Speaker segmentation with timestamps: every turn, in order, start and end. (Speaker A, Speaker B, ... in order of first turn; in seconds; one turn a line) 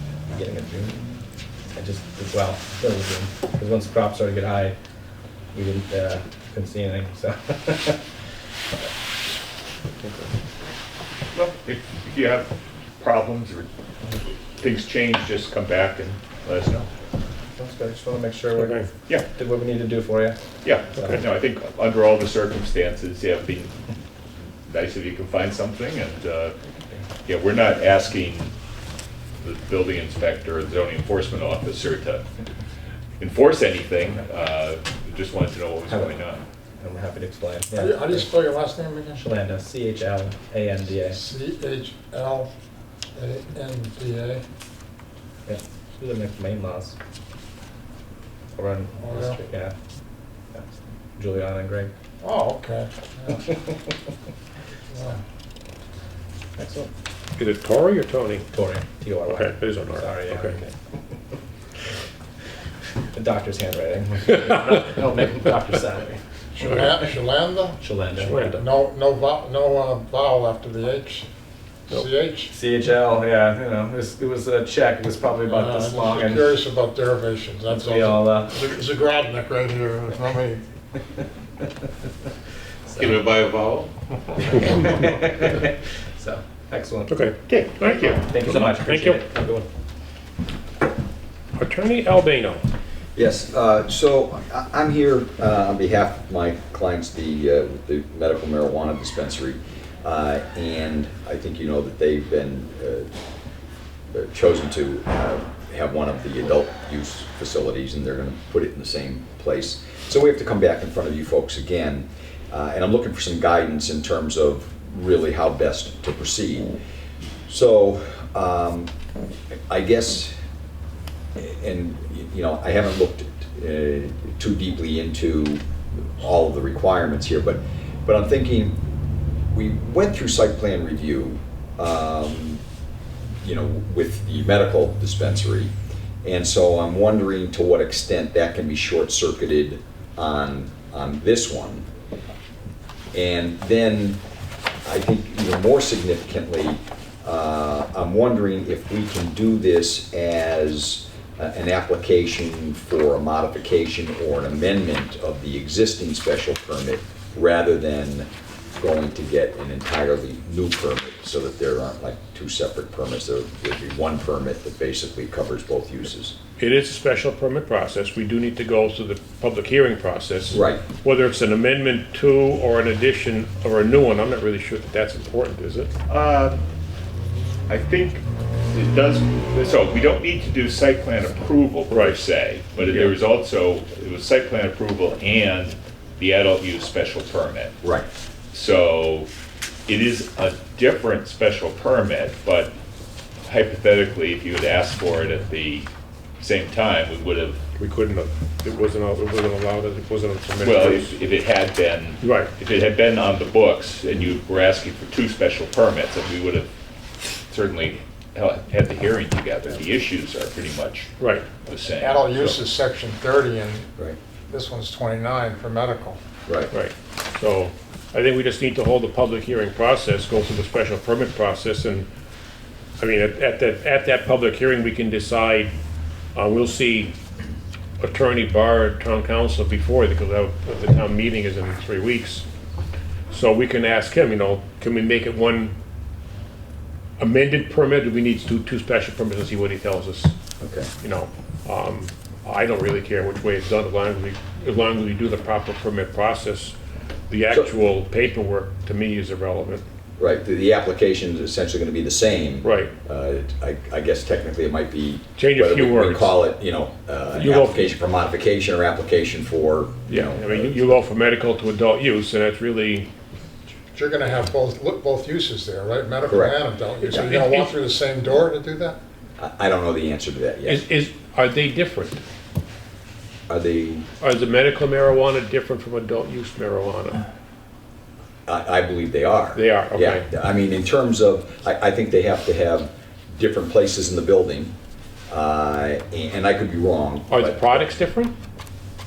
Speaker A: 0.3-1.1
Speaker A: 1.7-4.8
Speaker A: 5.5-8.0
Speaker B: 11.3-13.7
Speaker B: 14.6-16.9
Speaker A: 17.6-20.4
Speaker C: 18.6-18.9
Speaker B: 20.6-23.7
Speaker A: 20.9-21.2
Speaker B: 24.7-26.5
Speaker B: 27.2-28.5
Speaker B: 29.4-32.2
Speaker B: 33.2-36.4
Speaker A: 35.9-36.2
Speaker A: 36.8-38.3
Speaker D: 37.8-39.2
Speaker A: 39.1-41.2
Speaker D: 41.1-42.5
Speaker D: 43.1-44.4
Speaker A: 45.5-47.0
Speaker A: 48.5-49.7
Speaker D: 49.0-49.4
Speaker A: 50.5-51.9
Speaker D: 52.2-53.5
Speaker D: 54.9-55.2
Speaker A: 56.6-56.9
Speaker C: 57.4-58.5
Speaker A: 58.5-60.7
Speaker C: 59.3-60.5
Speaker A: 63.1-66.2
Speaker D: 66.5-67.8
Speaker A: 67.8-68.6
Speaker C: 68.2-68.6
Speaker D: 68.5-71.3
Speaker D: 71.9-72.5
Speaker A: 72.5-76.5
Speaker D: 75.5-80.6
Speaker A: 77.7-78.5
Speaker A: 82.9-83.3
Speaker A: 84.4-87.2
Speaker C: 87.1-89.2
Speaker B: 87.5-88.2
Speaker A: 87.8-89.7
Speaker C: 91.6-92.6
Speaker E: 93.1-103.1
Speaker E: 104.1-116.7
Speaker E: 117.5-118.9
Speaker E: 119.7-120.3
Speaker E: 121.4-128.8
Speaker E: 129.5-132.6
Speaker E: 133.4-135.7
Speaker E: 136.2-141.8
Speaker E: 143.1-144.2
Speaker E: 144.8-166.3
Speaker C: 166.6-175.9
Speaker E: 170.5-170.8
Speaker B: 176.1-176.6
Speaker B: 177.7-187.8
Speaker C: 181.9-182.2
Speaker C: 182.8-183.1
Speaker E: 187.8-188.1
Speaker B: 188.5-189.3
Speaker B: 189.9-192.7
Speaker B: 193.4-195.9
Speaker B: 196.4-197.6
Speaker C: 197.8-201.2
Speaker B: 200.6-206.7
Speaker C: 202.2-202.5
Speaker B: 207.5-211.1
Speaker C: 211.2-211.5
Speaker B: 211.6-212.3
Speaker D: 211.9-213.9
Speaker D: 214.5-216.2
Speaker E: 216.4-216.7
Speaker C: 216.7-222.1
Speaker C: 223.0-225.7
Speaker C: 226.3-227.1
Speaker C: 228.0-232.4
Speaker C: 233.3-235.7
Speaker C: 237.2-240.3
Speaker E: 240.6-240.9
Speaker C: 241.0-246.7
Speaker C: 247.3-249.8
Speaker E: 250.2-260.8
Speaker C: 252.6-252.9
Speaker C: 255.4-256.3
Speaker C: 257.3-257.9
Speaker C: 260.1-263.1
Speaker D: 263.9-269.0
Speaker E: 266.3-266.6
Speaker C: 267.0-267.7
Speaker E: 269.4-270.8
Speaker C: 270.6-272.2
Speaker E: 273.5-274.1
Speaker C: 274.2-277.2
Speaker E: 278.4-284.7
Speaker C: 279.5-280.2
Speaker E: 285.3-287.9
Speaker C: 287.3-288.3